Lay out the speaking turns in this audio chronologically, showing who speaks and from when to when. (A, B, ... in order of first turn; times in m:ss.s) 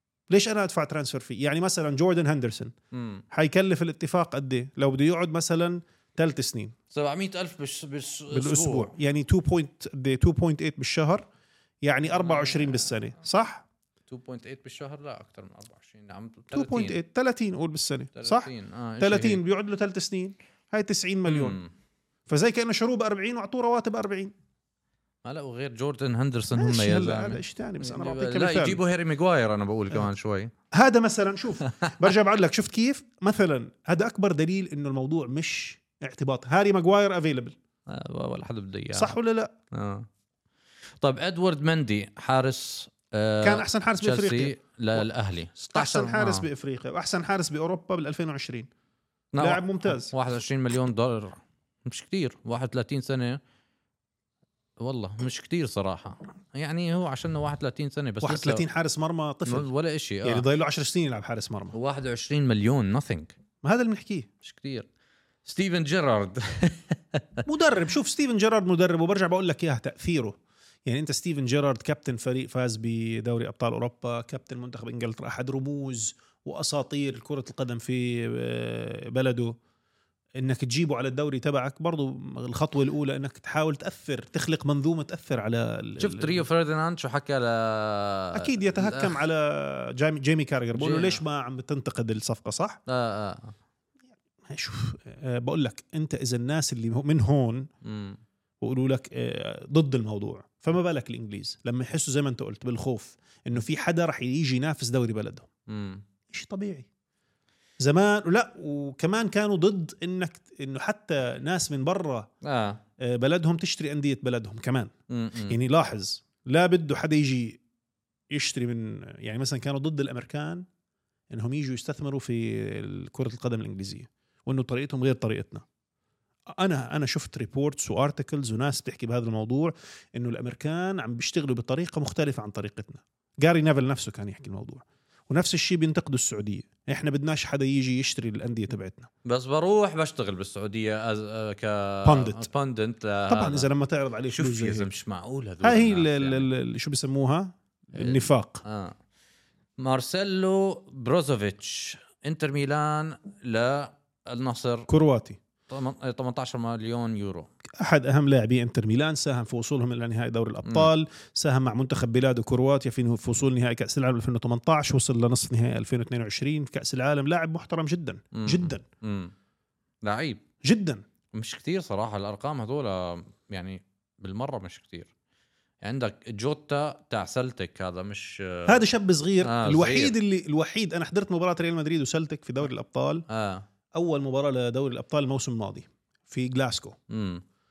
0:00.3-0:02.7 A
0:02.9-0:03.2 B
0:03.3-0:06.8 A
0:06.9-0:08.9 B
0:08.3-0:11.2 A
0:11.8-0:13.6 A
0:12.1-0:12.9 B
0:14.1-0:17.0 B
0:16.5-0:21.6 A
0:18.2-0:19.4 B
0:21.3-0:21.7 B
0:22.3-0:24.3 A
0:25.2-0:30.5 B
0:26.6-0:28.8 A
0:30.7-0:37.6 A
0:31.7-0:31.9 B
0:37.9-0:39.2 B
0:38.9-0:39.5 A
0:39.7-0:40.1 B
0:41.0-0:46.5 B
0:43.4-0:45.1 A
0:45.7-0:48.7 A
0:49.3-0:53.4 B
0:49.4-0:50.1 A
0:54.8-0:58.6 B
0:58.2-0:59.7 A
0:59.5-1:00.4 B
1:00.2-1:01.8 A
1:01.7-1:03.4 B
1:03.6-1:04.3 A
1:04.4-1:04.9 B
1:05.4-1:07.4 B
1:07.5-1:19.6 A
1:20.4-1:26.4 A
1:26.0-1:29.2 B
1:28.3-1:32.8 A
1:30.8-1:31.2 B
1:32.9-1:33.6 B
1:34.5-1:37.7 A
1:37.8-1:38.2 B
1:38.6-1:45.5 A
1:45.7-1:46.0 B
1:46.3-1:46.9 A
1:47.8-1:52.3 A
1:52.4-1:52.8 B
1:53.0-1:54.9 A
1:55.1-1:55.6 B
1:55.5-1:57.6 A
1:58.3-2:00.6 A
2:01.3-2:05.6 A
2:06.5-2:19.1 A
2:19.2-2:23.7 B
2:22.0-2:22.5 A
2:23.3-2:24.9 A
2:24.3-2:26.5 B
2:25.6-2:28.6 A
2:28.0-2:29.0 B
2:29.8-2:34.9 B
2:34.9-2:35.4 A
2:35.7-2:37.5 B
2:37.8-2:48.8 A
2:40.6-2:40.9 B
2:48.3-2:49.3 B
2:50.0-2:50.4 B
2:50.6-2:51.0 A
2:51.3-2:55.1 B
2:55.8-2:58.8 B
2:58.7-3:03.3 A
2:59.4-3:00.2 B
3:03.3-3:03.6 B
3:04.0-3:07.0 A
3:07.1-3:07.4 B